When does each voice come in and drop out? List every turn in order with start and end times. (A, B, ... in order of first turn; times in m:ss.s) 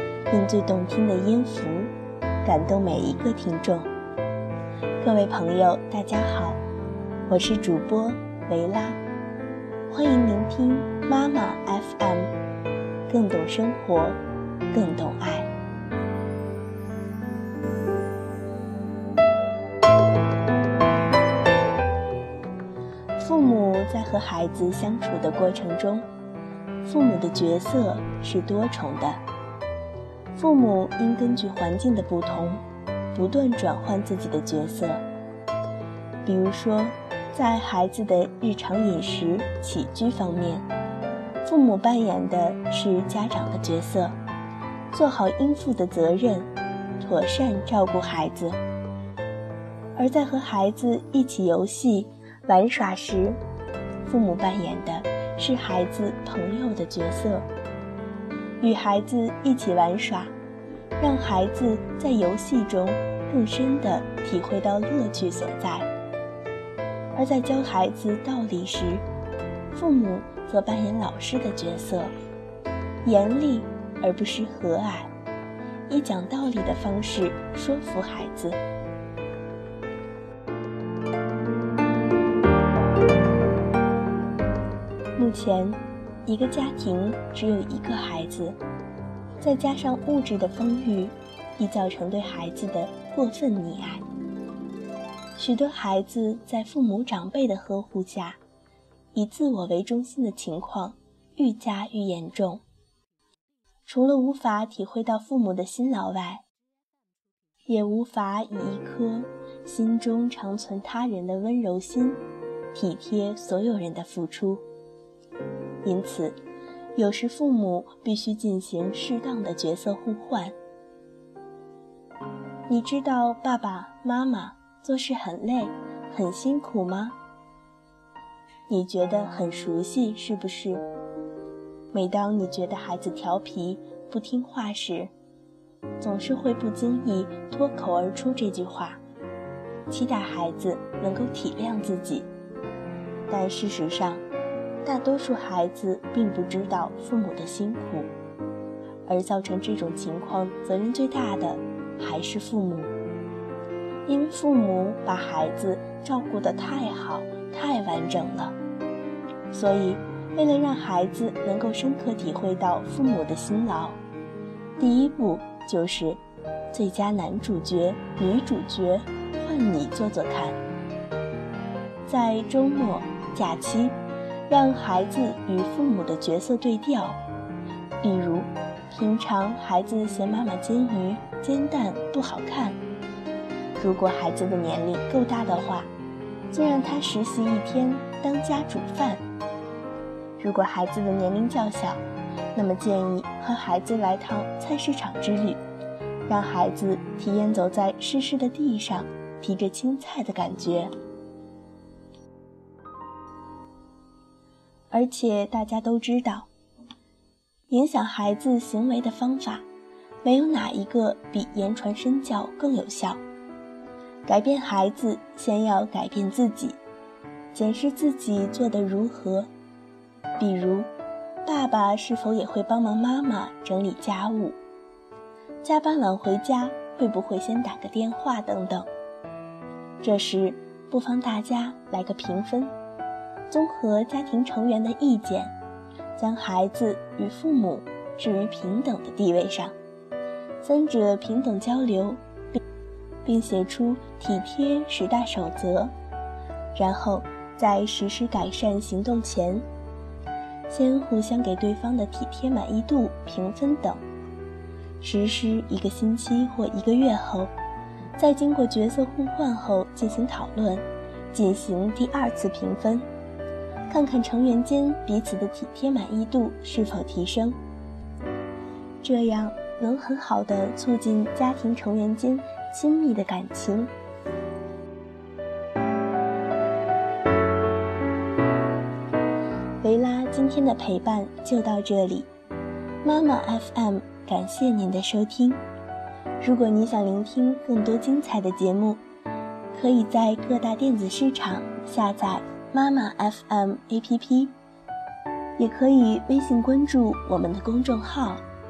0:00.3-0:01.9 A
0:02.4-0:03.9 A
0:05.0-0:06.6 A
0:07.3-0:09.0 A
0:09.9-0:12.3 A
0:13.1-0:14.2 A
0:14.7-0:15.5 A
0:23.2-0:26.1 A
0:26.8-0:29.2 A
0:30.4-0:32.6 A
0:33.1-0:35.0 A
0:36.2-0:40.7 A
0:41.4-0:44.2 A
0:44.9-0:48.6 A
0:50.0-0:53.4 A
0:54.0-0:57.5 A
0:58.6-1:00.3 A
1:01.0-1:05.9 A
1:07.2-1:09.0 A
1:09.7-1:12.1 A
1:13.0-1:15.1 A
1:15.9-1:18.6 A
1:25.2-1:28.6 A
1:29.4-1:34.0 A
1:35.4-1:38.4 A
1:39.1-1:42.6 A
1:43.9-1:46.4 A
1:47.7-1:54.6 A
1:55.8-1:56.4 A
1:57.0-2:00.6 A
2:02.7-2:07.2 A
2:08.7-2:10.8 A
2:11.9-2:15.1 A
2:16.0-2:19.0 A
2:19.9-2:22.3 A
2:23.3-2:24.2 A
2:24.8-2:28.1 A
2:29.1-2:32.9 A
2:34.1-2:38.6 A
2:39.5-2:44.0 A
2:44.8-2:46.2 A
2:46.7-2:50.6 A
2:52.1-2:57.2 A
2:58.0-3:02.8 A
3:03.8-3:05.9 A
3:06.5-3:09.2 A
3:10.4-3:12.0 A
3:12.5-3:15.6 A
3:16.3-3:20.9 A
3:24.9-3:26.5 A
3:27.7-3:29.7 A
3:30.2-3:33.2 A
3:34.3-3:36.8 A
3:37.5-3:39.5 A
3:40.4-3:40.9 A
3:41.4-3:44.6 A
3:45.6-3:48.9 A
3:50.0-3:52.7 A
3:53.5-3:55.6 A
3:56.2-3:59.8 A
4:00.6-4:02.2 A
4:03.2-4:05.9 A
4:06.8-4:09.7 A
4:10.7-4:14.0 A
4:15.0-4:17.5 A
4:18.2-4:23.1 A
4:23.9-4:27.6 A
4:29.0-4:33.9 A
4:39.8-4:42.3 A
4:43.0-4:45.6 A
4:46.4-4:49.0 A
4:49.7-4:54.6 A
4:55.6-4:58.4 A